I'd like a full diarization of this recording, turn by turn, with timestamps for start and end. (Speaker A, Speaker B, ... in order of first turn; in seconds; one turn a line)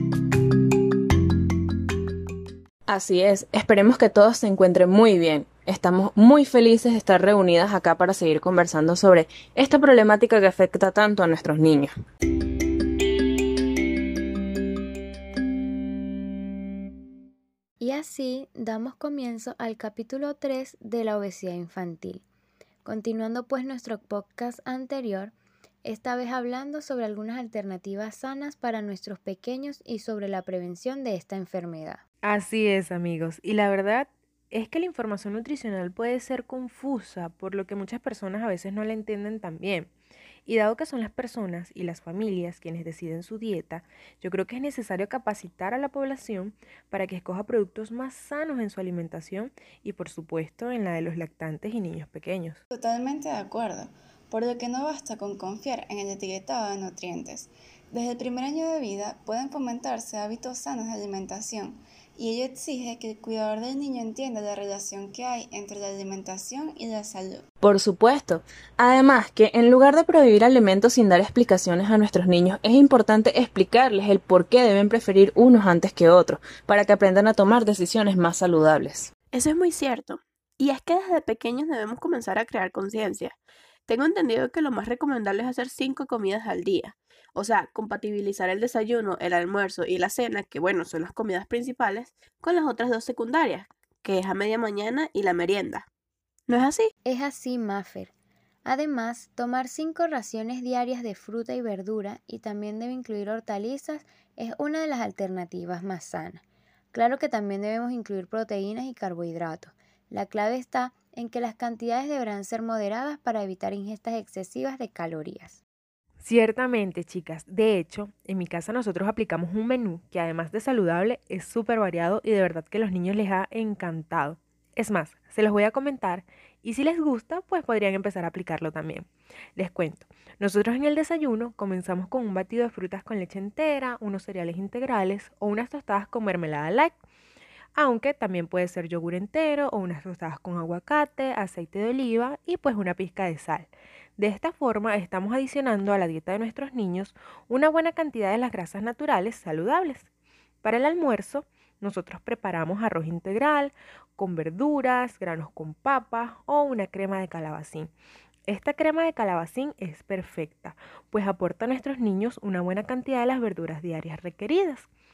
Speaker A: 2.9-11.9
Speaker B: 17.8-22.2
Speaker B: 22.8-32.0
Speaker C: 32.2-39.9
Speaker C: 40.5-52.6
Speaker D: 52.7-67.4
Speaker A: 67.6-79.1
Speaker E: 79.3-83.4
Speaker E: 83.9-95.9
Speaker E: 96.5-96.9
Speaker B: 97.0-98.1
Speaker B: 98.7-115.6
Speaker C: 116.2-137.0
Speaker C: 137.8-150.1
Speaker C: 150.6-157.9
Speaker C: 158.5-164.9